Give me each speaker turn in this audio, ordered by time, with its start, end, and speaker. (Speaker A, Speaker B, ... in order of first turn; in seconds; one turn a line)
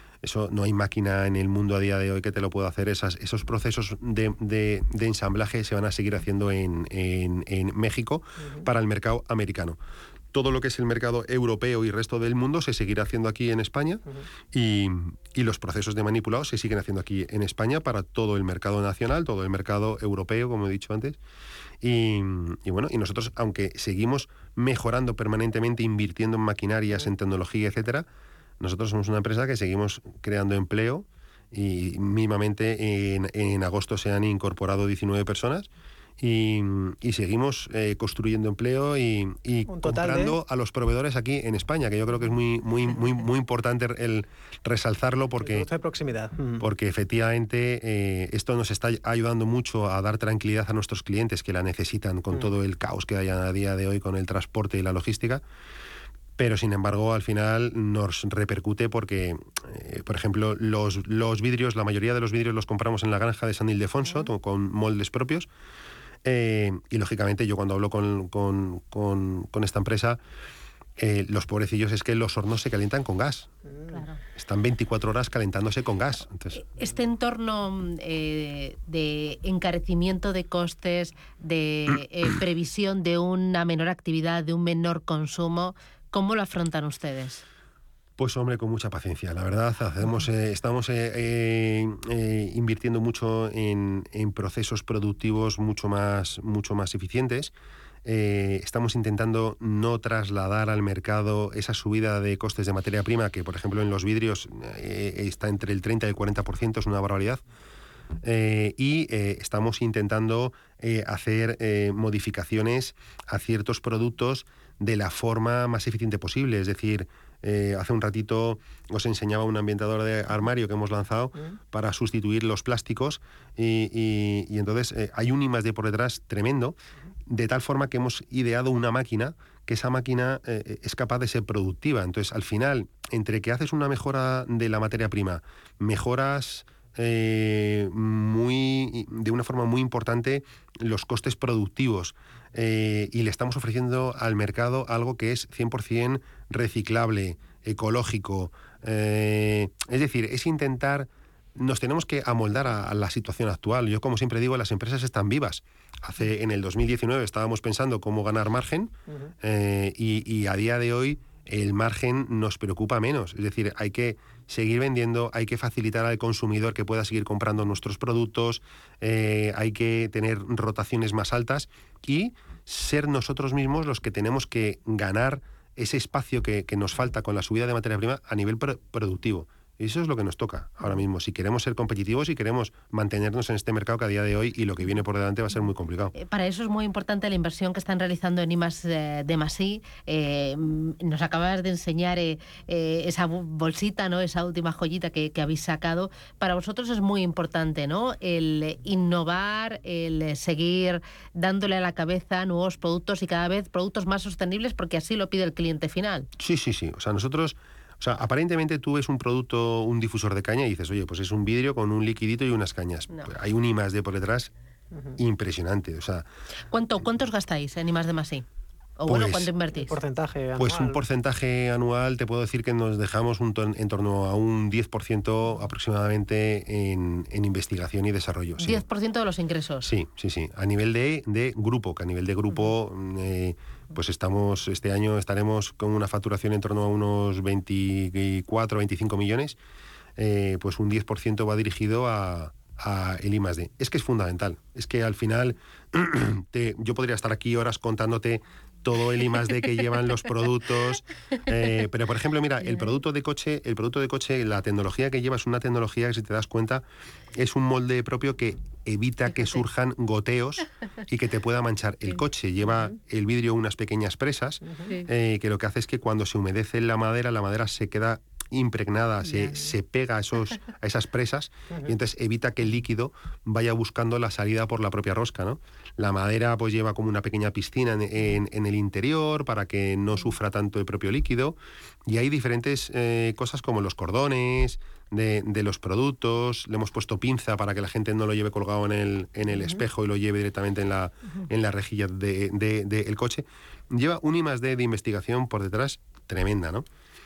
Speaker A: 0.2-9.8
Speaker A: 10.3-21.2
Speaker A: 21.8-28.1
Speaker A: 28.6-35.7
Speaker A: 36.2-45.7
Speaker B: 39.7-40.4
Speaker B: 45.4-46.6
Speaker A: 46.6-55.4
Speaker A: 56.4-65.5
Speaker A: 66.2-70.2
Speaker A: 71.0-73.5
Speaker C: 73.9-74.2
Speaker A: 74.3-76.6
Speaker C: 76.5-87.4
Speaker A: 88.2-97.5
Speaker A: 98.0-107.4
Speaker A: 108.2-126.8
Speaker A: 127.3-186.1
Speaker C: 186.1-206.3
Speaker A: 206.4-214.5
Speaker A: 215.2-216.2
Speaker C: 216.7-218.4
Speaker C: 219.0-219.9
Speaker A: 219.1-219.5
Speaker B: 219.8-221.0
Speaker A: 220.6-228.8
Speaker C: 228.6-229.9
Speaker A: 229.8-239.6
Speaker A: 240.2-256.8
Speaker A: 257.3-296.9
Speaker B: 264.6-264.9